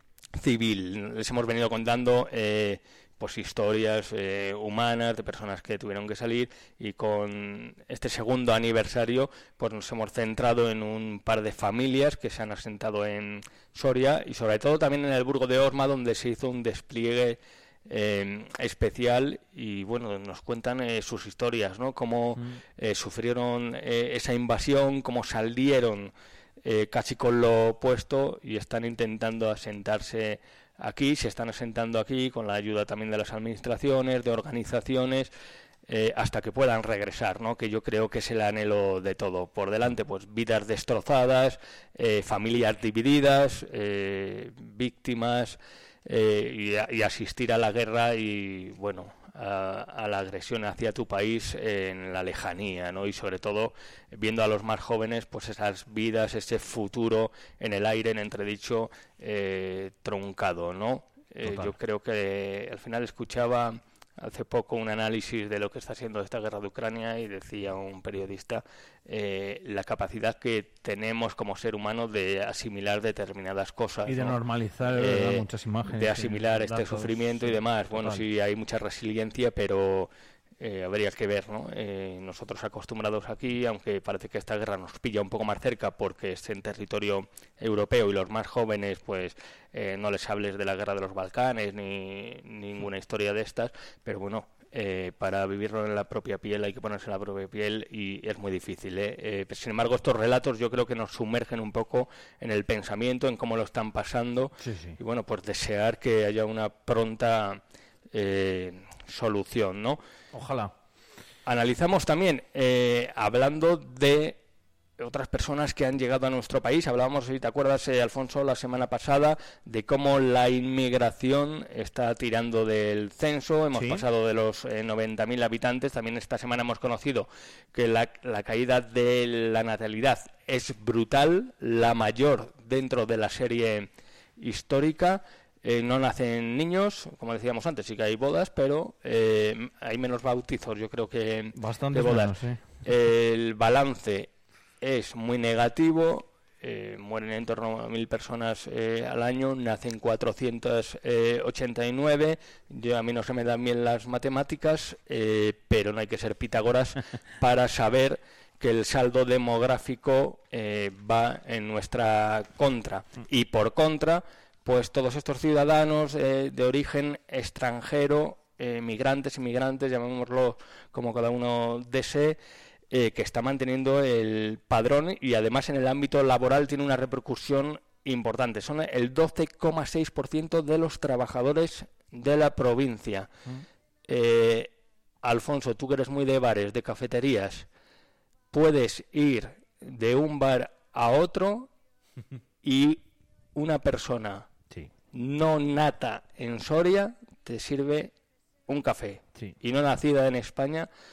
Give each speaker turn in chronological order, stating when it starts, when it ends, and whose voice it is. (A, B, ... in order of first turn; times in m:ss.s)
0:00.3-0:26.1 A
0:26.6-0:35.3 A
0:35.9-1:14.4 A
1:01.4-1:01.7 B
1:14.0-1:18.2 B
1:14.9-1:47.6 A
1:44.6-1:45.0 B
1:48.1-1:50.0 A
1:50.3-1:50.7 B
1:51.4-1:54.4 A
1:55.0-2:24.3 A
2:03.7-2:04.0 B
2:21.6-2:22.6 B
2:24.8-2:52.4 A
2:52.9-3:03.3 A
3:04.1-3:04.7 A
3:05.2-3:07.7 A
3:08.5-3:11.7 A
3:12.6-3:13.0 A
3:13.6-3:14.5 A
3:15.1-3:18.1 A
3:18.7-3:20.9 A